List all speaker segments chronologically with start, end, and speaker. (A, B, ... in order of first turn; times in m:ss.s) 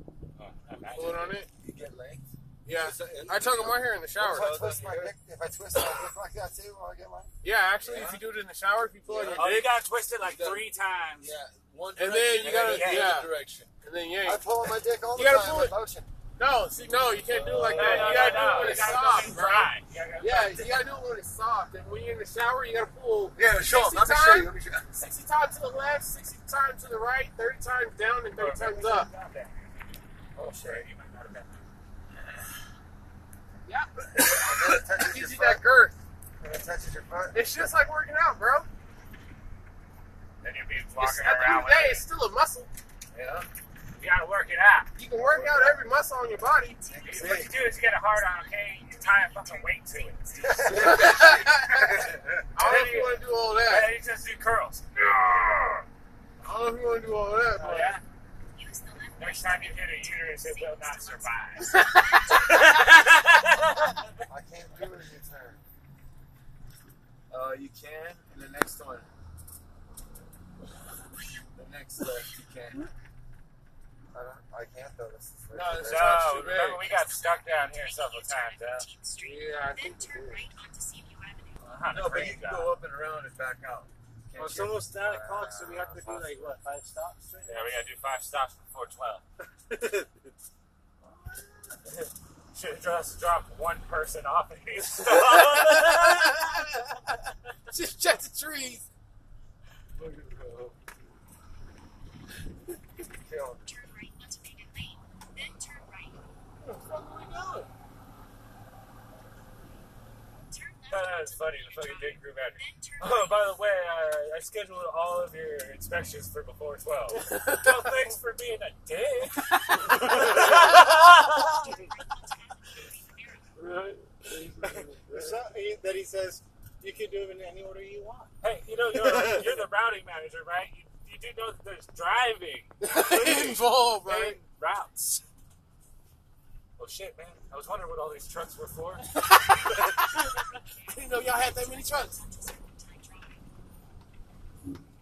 0:00.4-0:01.4 A
0:00.7-0:05.2 B
0:00.9-0:01.5 C
0:02.6-0:04.6 C
0:04.2-0:07.3 D
0:07.4-0:09.8 C
0:07.8-0:08.3 B
0:09.1-0:09.5 B
0:09.3-0:11.3 A
0:10.2-0:10.5 B
0:11.2-0:13.7 B
0:12.0-0:14.5 C
0:12.4-0:13.2 A
0:14.2-0:16.1 D
0:15.1-0:15.8 C
0:16.4-0:29.1 C
0:17.3-0:20.9 A
0:17.4-0:19.0 B
0:18.3-0:18.7 E
0:23.3-0:24.9 B
0:28.3-0:31.6 A
0:30.3-0:30.9 D
0:33.6-0:36.0 C
0:34.1-0:35.6 D
0:36.4-0:37.4 D
0:37.3-0:38.7 C
0:40.4-0:42.0 A
0:41.0-0:42.7 C
0:43.1-0:43.4 B
0:43.9-0:44.9 A
0:45.0-0:46.8 C
0:45.2-0:45.8 B
0:46.8-0:51.1 F
0:46.9-0:47.7 D
0:47.0-0:51.3 A
0:50.4-0:51.4 D
0:50.7-0:53.9 C
0:52.0-0:52.4 B
0:52.5-0:55.8 A
0:55.2-0:55.8 C
0:56.4-0:58.0 C
0:57.5-0:58.0 A
0:58.5-1:03.1 F
0:59.2-1:04.0 A
1:01.6-1:02.6 C
1:04.3-1:05.6 D
1:07.3-1:09.1 B
1:11.5-1:12.9 B
1:14.1-1:16.4 D
1:15.5-1:16.9 C
1:15.8-1:18.9 A
1:16.6-1:21.6 F
1:19.2-1:20.4 C
1:21.6-1:22.8 A
1:21.9-1:25.0 B
1:24.4-1:27.7 E
1:25.0-1:26.3 D
1:27.4-1:29.2 A
1:29.7-1:30.1 E
1:31.0-1:31.8 B
1:31.8-1:36.5 A
1:35.1-1:37.0 C
1:37.7-1:38.8 C
1:40.0-1:40.7 B
1:43.2-1:43.8 D
1:43.5-1:46.2 F
1:46.6-1:47.7 C
1:50.5-1:53.6 F
1:50.9-2:01.7 A
1:57.2-1:57.9 C
1:59.6-2:00.6 C
2:00.0-2:03.5 F
2:03.6-2:04.6 C
2:04.2-2:05.4 D
2:04.7-2:08.3 E
2:08.4-2:15.2 A
2:09.0-2:09.5 E
2:12.8-2:14.4 C
2:16.8-2:19.1 A
2:19.0-2:22.2 C
2:20.6-2:23.4 F